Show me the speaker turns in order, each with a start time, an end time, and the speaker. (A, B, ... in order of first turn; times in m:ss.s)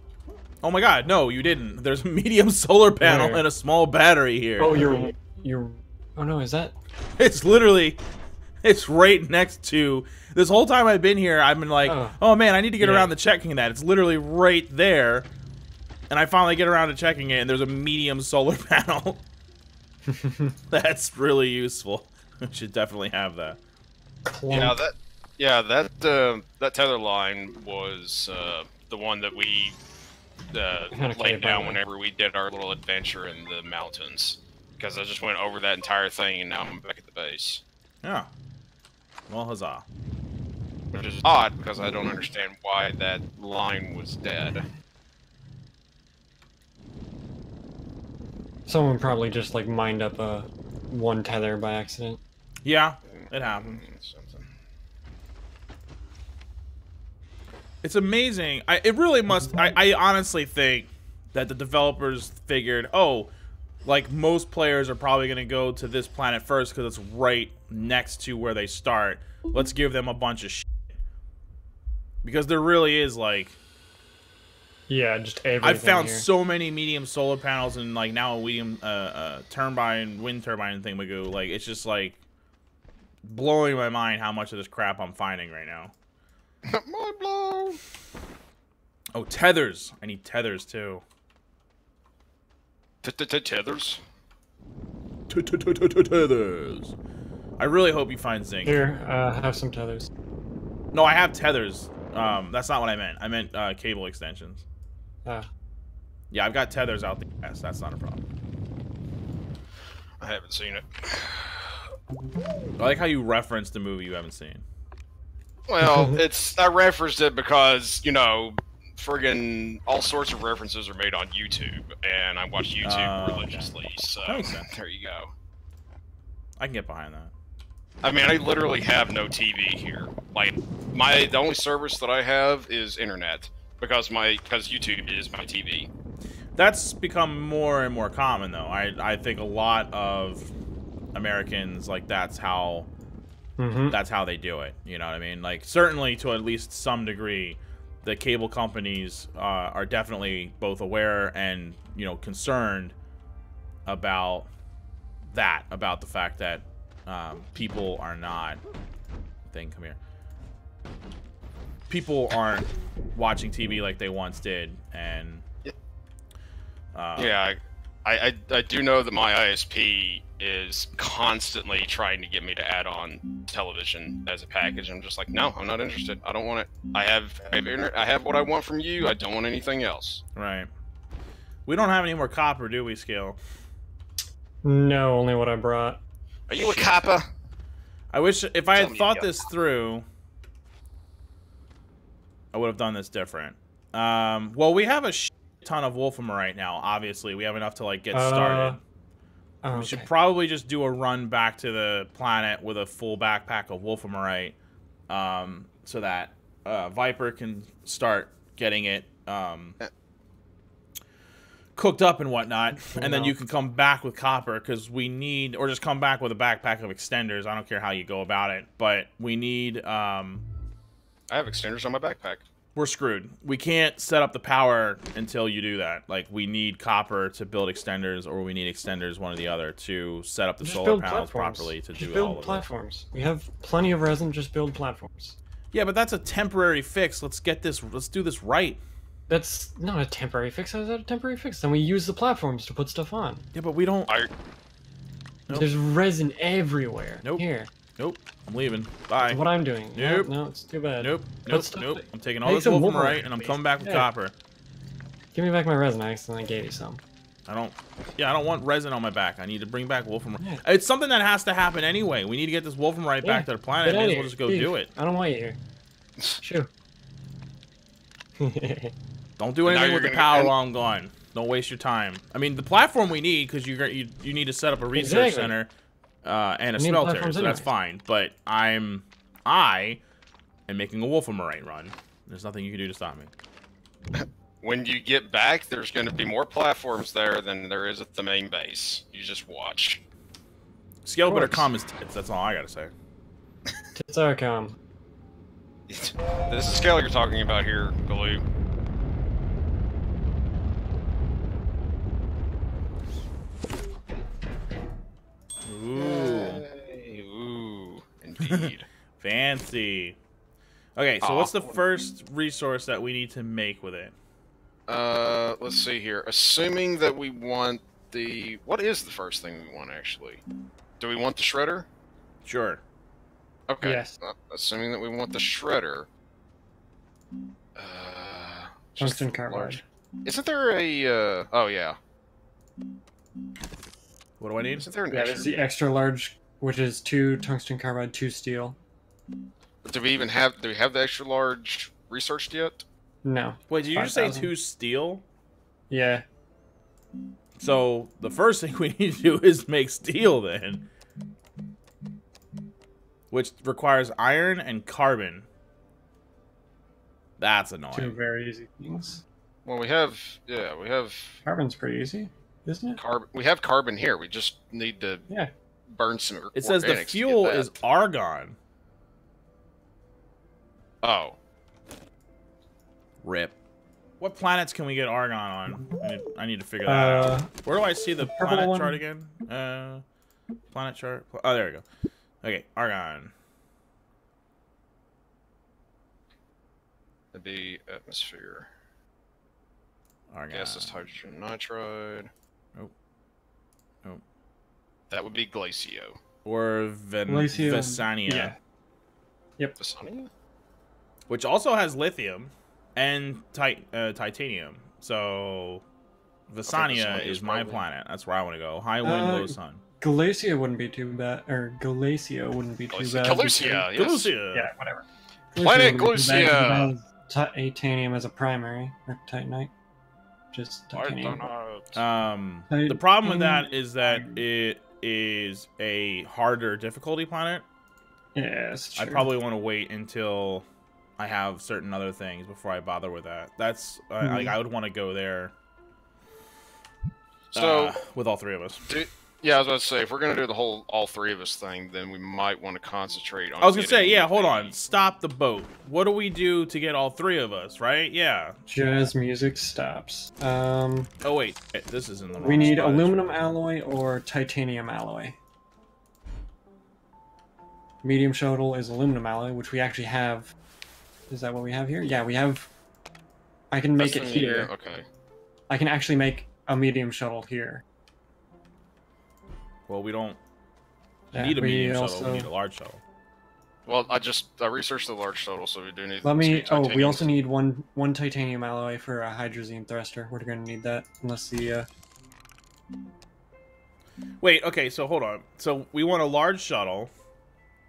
0:00.6-0:05.1 A
0:03.0-0:03.4 B
0:04.6-0:06.7 B
0:07.2-0:08.0 A
0:08.6-0:15.3 A
0:11.8-0:12.2 B
0:12.8-0:13.1 B
0:16.1-0:19.2 A
0:20.1-0:20.6 B
0:20.7-0:23.6 A
0:24.3-0:24.8 B
0:24.5-0:29.8 C
0:30.5-0:37.6 C
0:30.9-0:31.8 B
0:38.0-0:38.3 A
0:39.3-0:39.8 A
0:40.9-0:44.7 C
0:48.7-0:52.2 B
0:52.6-0:53.8 A
0:53.1-0:54.5 C
0:57.8-1:03.3 A
1:03.8-1:10.7 A
1:12.2-1:13.6 A
1:14.9-1:16.2 B
1:15.6-1:22.2 A
1:23.2-1:25.9 A
1:26.6-1:27.8 C
1:29.1-1:31.0 A
1:33.0-1:34.0 C
1:35.3-1:36.9 A
1:37.6-1:38.8 A
1:38.6-1:40.1 B
1:40.9-1:44.6 A
1:46.3-1:48.2 A
1:50.2-1:51.8 C
1:52.8-1:54.6 A
1:55.7-2:05.3 C
1:55.8-1:56.2 B
2:02.8-2:03.7 A
2:04.2-2:04.6 A
2:06.6-2:07.3 A
2:08.0-2:15.9 C
2:16.6-2:20.5 A
2:21.1-2:22.9 A
2:23.6-2:24.0 B
2:23.9-2:32.9 A
2:33.8-2:34.5 A
2:35.3-2:38.6 A
2:39.5-2:40.0 A
2:41.9-2:45.4 A
2:46.9-2:47.3 A
2:47.2-3:00.2 C
3:00.3-3:00.7 A
3:01.6-3:03.4 A
3:04.6-3:06.0 B
3:06.5-3:07.2 C
3:06.6-3:07.0 A
3:08.1-3:10.0 A
3:08.7-3:09.4 C
3:12.5-3:18.8 A
3:18.1-3:18.8 B
3:19.6-3:20.1 B
3:19.7-3:24.6 A
3:25.1-3:29.8 A
3:31.8-3:40.4 A
3:32.9-3:33.3 B
3:41.3-3:42.4 C
3:42.8-3:52.7 A
3:50.6-3:55.4 B
3:55.7-3:58.8 A
3:59.3-4:03.4 B
4:03.5-4:04.1 A
4:05.5-4:07.7 B
4:07.2-4:09.4 A
4:09.3-4:14.1 B
4:09.9-4:10.3 A
4:11.0-4:14.3 A
4:15.3-4:17.0 B
4:17.5-4:24.9 A
4:23.2-4:25.6 B
4:26.4-4:26.7 B
4:28.4-4:28.9 B
4:29.4-4:35.7 A
4:29.6-4:30.5 C
4:34.9-4:35.5 B
4:36.2-4:40.0 A
4:36.8-4:37.7 B
4:40.7-4:43.3 A
4:44.1-4:50.0 C
4:51.0-4:52.9 A
4:51.2-4:51.7 B
4:53.9-4:54.8 B
4:55.9-4:58.4 C
5:05.6-5:06.6 A
5:05.9-5:08.9 C
5:08.4-5:10.2 A
5:11.0-5:14.1 A
5:11.2-5:11.8 C
5:14.9-5:20.4 C
5:21.0-5:21.9 C
5:22.4-5:22.8 A
5:23.7-5:26.1 C
5:23.8-5:24.1 B
5:27.8-5:32.0 C
5:29.0-5:29.8 B
5:34.4-5:34.9 A
5:34.7-5:35.5 C
5:35.1-5:38.8 B
5:39.8-5:42.8 C
5:43.2-5:44.5 B
5:43.7-5:45.2 A
5:45.9-5:46.2 B
5:47.6-5:50.9 A
5:53.3-5:55.5 A
5:57.4-5:58.2 A
5:57.9-5:59.2 B
5:59.6-6:01.4 C
6:01.4-6:03.0 B
6:03.0-6:05.2 C
6:05.9-6:07.7 C
6:06.5-6:08.6 A
6:11.0-6:11.4 C
6:13.2-6:13.5 A
6:14.2-6:20.0 A
6:16.8-6:17.5 B
6:18.2-6:19.0 B
6:20.7-6:21.8 A
6:22.4-6:23.3 A
6:27.3-6:28.7 C
6:30.3-6:31.1 A
6:30.5-6:32.3 C
6:35.1-6:36.2 C
6:36.4-6:38.5 A
6:37.3-6:38.6 B
6:39.8-6:40.3 C
6:41.3-6:45.8 A
6:46.5-6:49.8 A
6:46.7-6:47.8 C
6:49.0-6:53.9 B
6:52.9-6:54.3 C
6:53.9-6:54.7 A
6:54.5-6:59.7 B
6:55.6-6:56.9 C
7:00.5-7:01.4 B
7:00.9-7:02.0 C
7:01.9-7:07.6 A
7:02.7-7:04.4 B
7:08.3-7:09.3 B
7:09.0-7:10.6 A
7:11.2-7:15.5 A
7:14.2-7:14.5 B
7:17.5-7:17.9 C
7:17.5-7:18.9 A
7:18.9-7:24.7 C
7:23.6-7:28.6 A
7:28.7-7:31.1 B
7:31.2-7:33.5 A
7:32.4-7:35.4 B
7:38.0-7:40.5 B
7:41.3-7:42.7 B
7:43.7-7:44.7 B
7:44.0-7:45.0 C
7:45.7-7:47.8 B
7:49.9-7:50.4 A
7:51.3-7:52.5 B
7:51.4-7:53.0 A
7:53.8-7:57.3 C
7:56.2-8:01.9 B
8:04.4-8:07.1 A